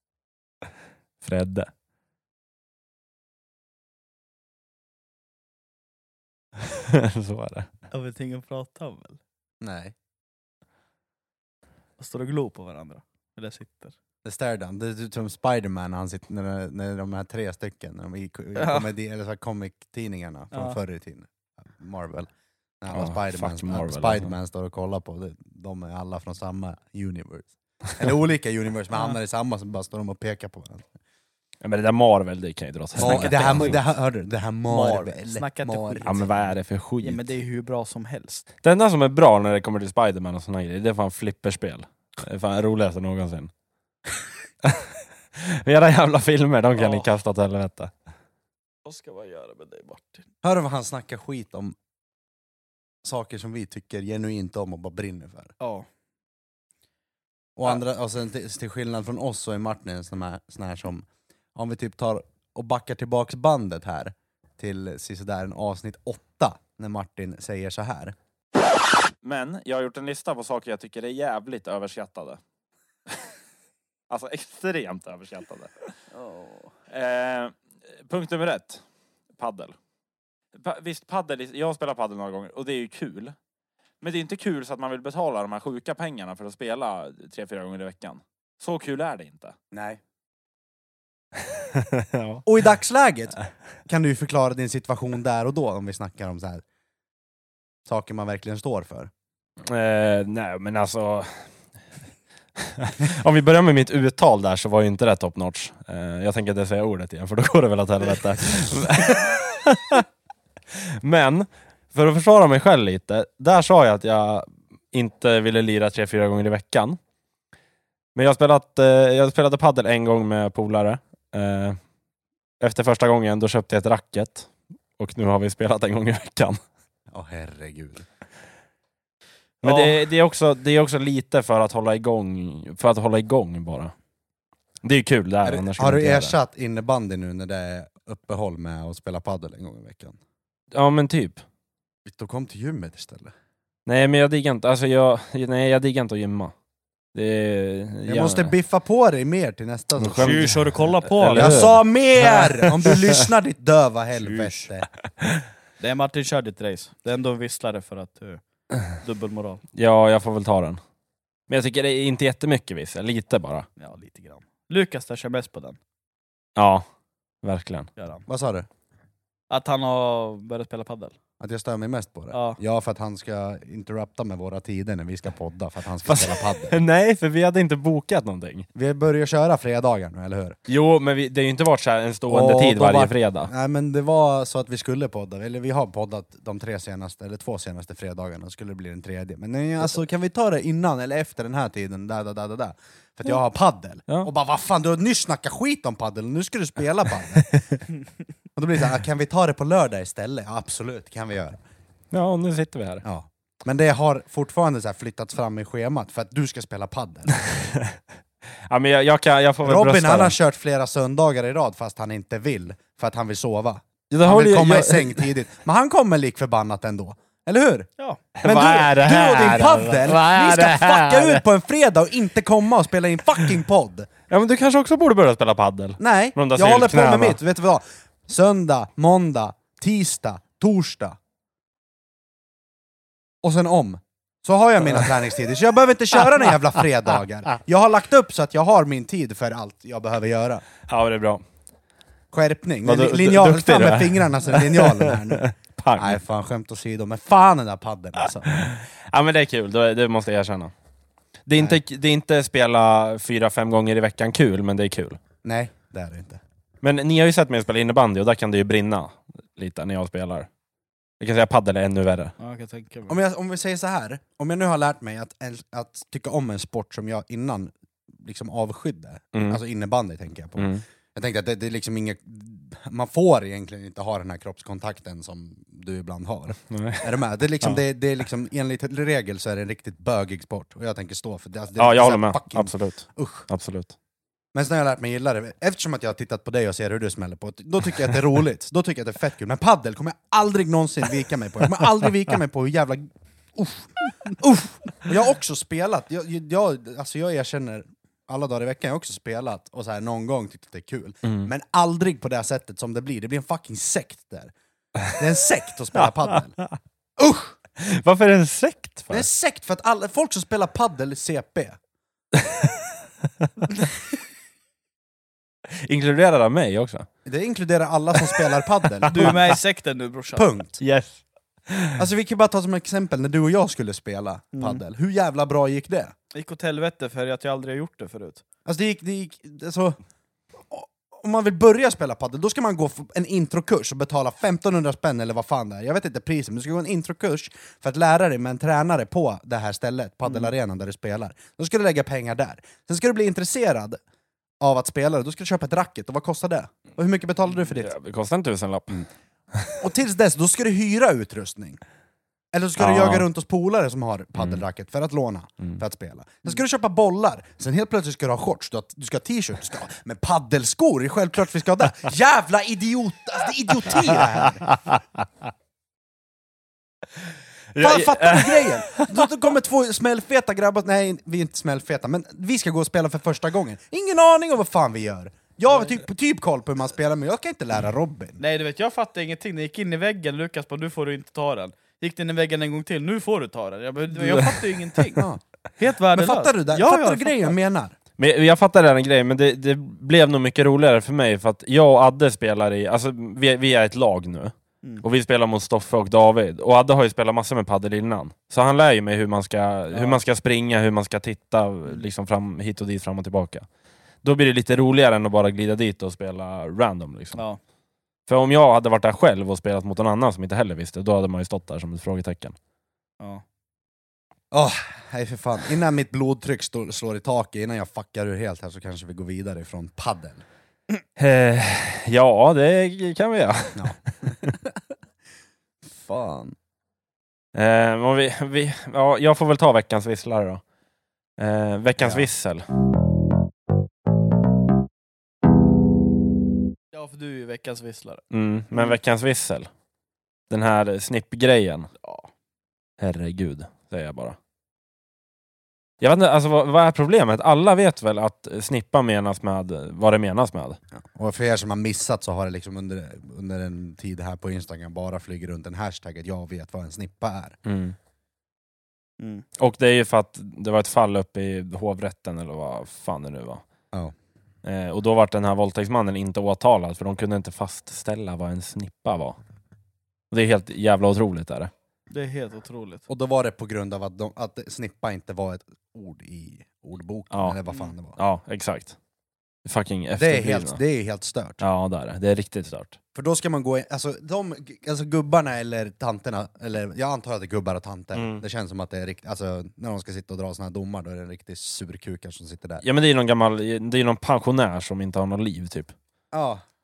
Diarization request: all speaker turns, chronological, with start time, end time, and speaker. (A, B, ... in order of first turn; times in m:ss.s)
0:01.2-0:01.7 A
0:06.6-0:07.7 A
0:07.9-0:09.2 B
0:09.6-0:09.9 C
0:12.0-0:13.9 B
0:14.2-0:22.3 C
0:18.5-0:18.9 B
0:20.5-0:20.8 B
0:22.8-0:30.9 C
0:22.9-0:24.3 A
0:31.6-0:33.8 A
0:33.0-0:36.1 C
0:33.0-0:33.8 B
0:34.7-0:36.5 B
0:36.0-0:37.3 A
0:37.0-0:38.5 B
0:38.6-0:43.5 A
0:44.6-0:47.9 A
0:46.7-0:47.1 B
0:48.8-0:50.2 B
0:50.4-0:51.8 C
0:53.0-0:55.5 C
0:55.6-0:55.9 B
0:57.6-1:08.1 C
1:09.2-1:12.4 A
1:14.1-1:15.9 A
1:16.1-1:16.7 B
1:16.9-1:18.8 A
1:19.4-1:19.7 A
1:20.5-1:23.3 A
1:24.0-1:29.5 A
1:29.7-1:30.0 C
1:31.6-1:32.4 A
1:32.4-1:36.6 C
1:37.9-1:39.1 C
1:39.6-1:41.5 A
1:42.6-1:50.0 A
1:50.7-1:57.0 A
1:58.1-2:01.8 A
2:02.6-2:06.6 A
2:07.1-2:08.0 C
2:09.6-2:13.9 A
2:09.6-2:10.0 B
2:14.8-2:16.3 A
2:15.4-2:20.2 C
2:20.7-2:21.4 A
2:22.0-2:23.3 C
2:23.8-2:26.5 A
2:27.1-2:28.5 A
2:28.1-2:30.5 C
2:30.0-2:33.2 A
2:30.2-2:31.7 B
2:31.3-2:34.9 C
2:34.2-2:34.7 B
2:35.8-2:39.6 B
2:39.7-2:40.8 A
2:41.5-2:43.7 A
2:43.8-2:45.8 B
2:46.6-2:46.8 A
2:47.4-2:47.9 A
2:48.0-2:48.2 B
2:48.3-2:48.7 C
2:49.5-2:51.2 B
2:51.4-2:56.8 C
2:52.3-2:52.6 B
2:56.0-2:58.7 A
2:58.7-3:00.6 C
3:00.7-3:03.5 A
3:02.3-3:17.6 C
3:18.6-3:21.6 C
3:22.1-3:23.0 A
3:23.0-3:27.5 C
3:27.5-3:27.9 A
3:28.6-3:30.4 A
3:29.6-3:37.9 C
3:34.1-3:35.3 A
3:38.4-3:41.4 A
3:38.4-3:44.1 C
3:44.3-3:47.4 A
3:46.0-3:51.2 C
3:53.4-4:00.6 C
4:00.9-4:01.4 A
4:02.3-4:05.4 C
4:02.8-4:06.2 A
4:06.0-4:08.6 C
4:08.5-4:10.7 A
4:11.5-4:15.2 A
4:11.5-4:11.8 C
4:15.4-4:16.4 C
4:16.8-4:20.5 A
4:21.2-4:22.3 A
4:22.4-4:23.2 B
4:23.1-4:43.5 C
4:29.3-4:29.6 A
4:30.6-4:30.8 A
4:36.7-4:37.8 A
4:41.8-4:43.9 A
4:44.5-5:04.5 C
5:01.2-5:01.5 A
5:05.1-5:06.6 C
5:06.0-5:06.7 A
5:07.2-5:07.5 C
5:07.8-5:09.3 A
5:09.1-5:11.8 C
5:12.3-5:12.9 A
5:13.4-5:13.7 A
5:15.7-5:17.1 A
5:17.2-5:19.4 C
5:18.2-5:19.4 A
5:19.1-5:20.5 B
5:20.4-5:20.8 C
5:20.8-5:22.0 A
5:22.0-5:26.1 C
5:24.5-5:24.8 B
5:26.3-5:28.4 B
5:28.6-5:30.0 C
5:30.6-5:44.0 C
5:44.6-5:47.9 C
5:47.7-5:49.8 A
5:49.8-5:51.8 C
5:52.5-6:04.7 C
5:52.8-5:53.3 A
6:04.7-6:05.0 A
6:07.7-6:09.2 A
6:07.8-6:18.4 C
6:18.4-6:25.3 B
6:24.1-6:25.0 A
6:25.2-6:25.4 C
6:25.8-6:27.6 B
6:26.1-6:27.9 C
6:28.2-6:43.6 A
6:39.9-6:40.2 B
6:44.2-6:47.4 A
6:48.3-6:52.6 A
6:54.5-7:00.4 C
7:01.2-7:04.5 A
7:03.7-7:04.8 C
7:05.8-7:06.5 C
7:07.5-7:10.6 A
7:11.4-7:12.6 A
7:12.0-7:12.3 C
7:16.9-7:18.2 B
7:18.3-7:19.7 A
7:20.5-7:21.9 A
7:22.0-7:22.3 B
7:23.0-7:24.4 A
7:26.0-7:30.8 A
7:30.9-7:37.6 C
7:37.6-7:38.0 A
7:39.2-7:39.4 B
7:39.6-7:43.6 A
7:44.6-7:49.4 A
7:50.3-7:51.7 A
7:52.1-7:53.0 B
7:53.1-7:58.2 C
7:57.3-7:57.6 A
7:57.7-7:57.9 B
7:58.2-7:59.0 A
7:59.6-8:00.8 A
8:00.2-8:01.6 C
8:01.6-8:03.0 A
8:03.1-8:12.8 C
8:08.1-8:08.4 A
8:12.8-8:15.9 A
8:16.3-8:16.6 C